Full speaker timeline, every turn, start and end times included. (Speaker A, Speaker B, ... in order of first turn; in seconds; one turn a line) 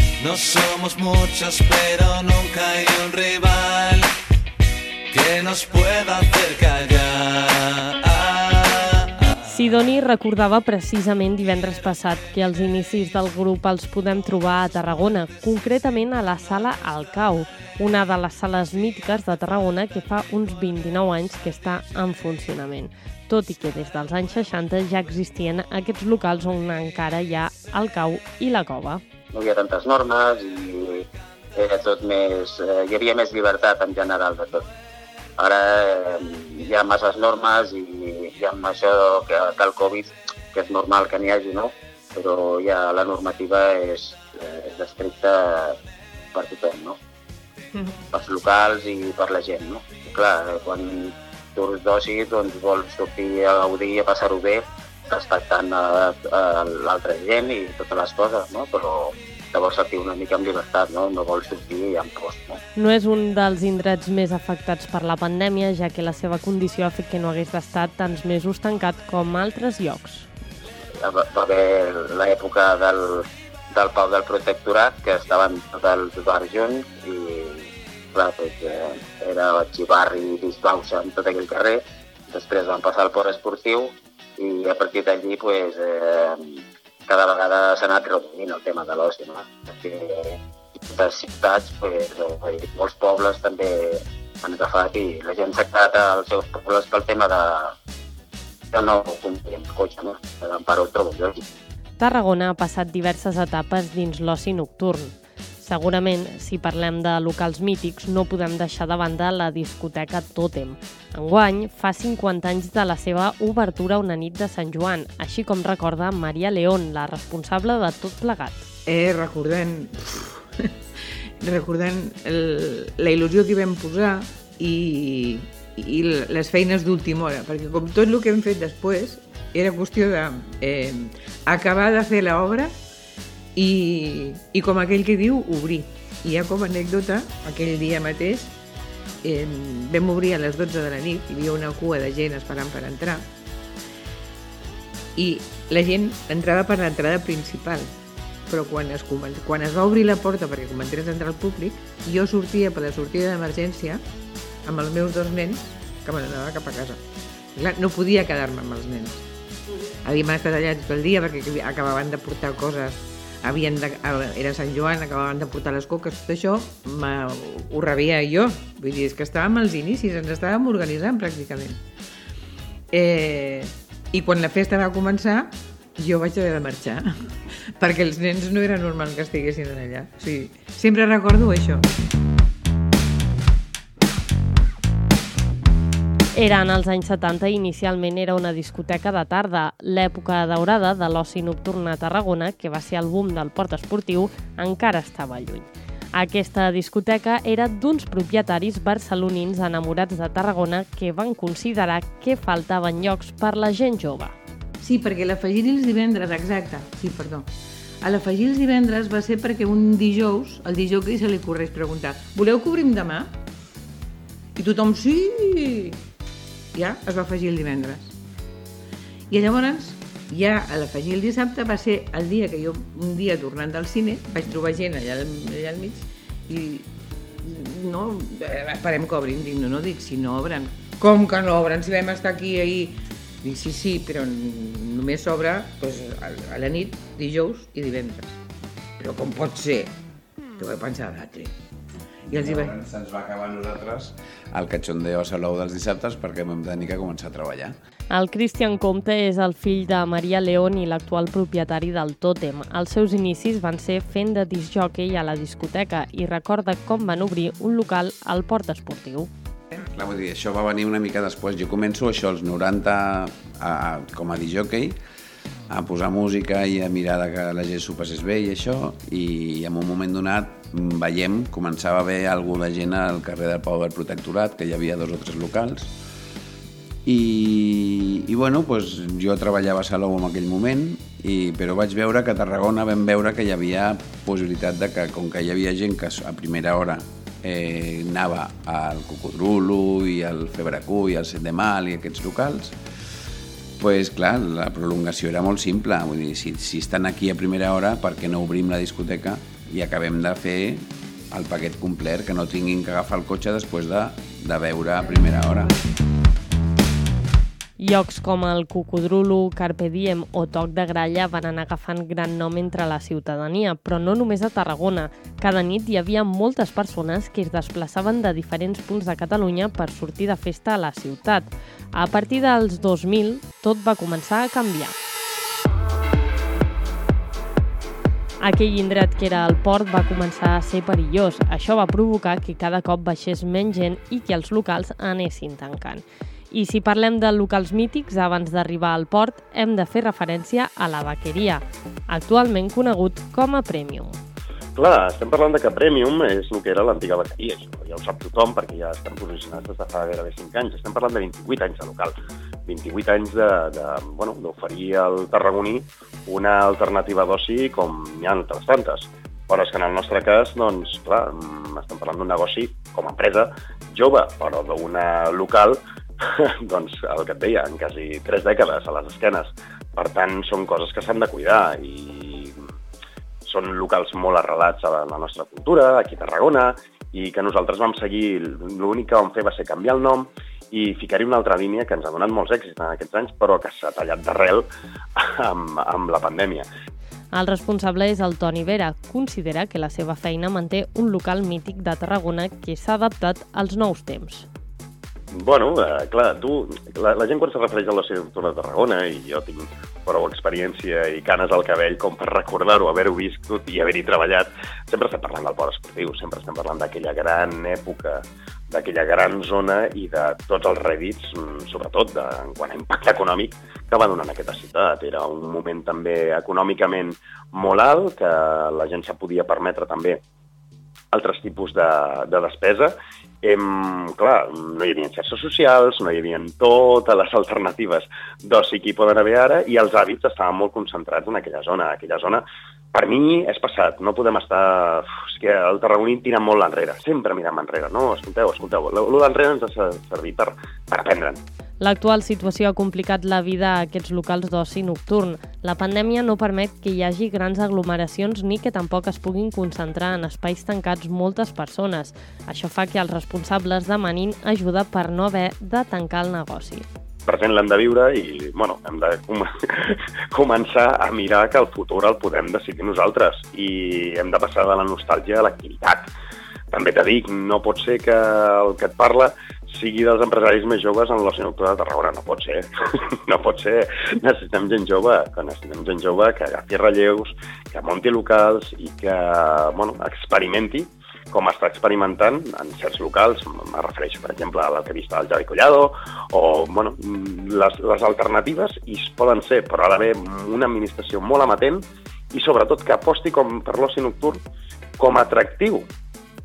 Speaker A: 0.2-4.2
Speaker A: 5.1-9.4
Speaker B: 9.4-29.0
Speaker C: 29.3-34.6
Speaker C: 35.4-45.8
Speaker C: 46.3-47.0
Speaker C: 48.1-62.6
Speaker B: 62.7-70.3
Speaker C: 71.0-97.8
Speaker C: 98.7-101.4
Speaker B: 102.0-118.7
Speaker D: 118.8-120.7
Speaker D: 121.4-132.8
Speaker D: 133.6-138.5
Speaker D: 139.2-143.3
Speaker D: 145.2-147.9
Speaker D: 148.5-154.0
Speaker D: 154.6-157.0
Speaker D: 157.5-159.2
Speaker D: 160.0-171.8
Speaker D: 172.9-177.1
Speaker D: 177.8-181.8
Speaker B: 186.3-204.4
Speaker D: 204.8-207.5
Speaker D: 208.0-213.3
Speaker D: 214.6-216.0
Speaker D: 216.8-218.2
Speaker D: 219.3-226.9
Speaker D: 227.4-238.4
Speaker D: 239.0-239.9
Speaker D: 240.6-241.5
Speaker E: 242.3-247.8
Speaker D: 242.3-242.7
Speaker B: 248.1-259.3
Speaker E: 259.9-265.0
Speaker E: 265.7-275.9
Speaker E: 277.0-292.8
Speaker E: 293.8-305.7
Speaker B: 307.8-324.9
Speaker B: 328.4-344.2
Speaker F: 344.8-352.1
Speaker F: 352.6-372.6
Speaker F: 373.4-386.6
Speaker B: 387.3-394.5
Speaker F: 395.3-420.2
Speaker F: 421.1-441.4
Speaker B: 441.8-456.9
Speaker F: 457.3-466.1
Speaker F: 466.7-472.7
Speaker F: 473.3-494.4
Speaker F: 495.0-495.9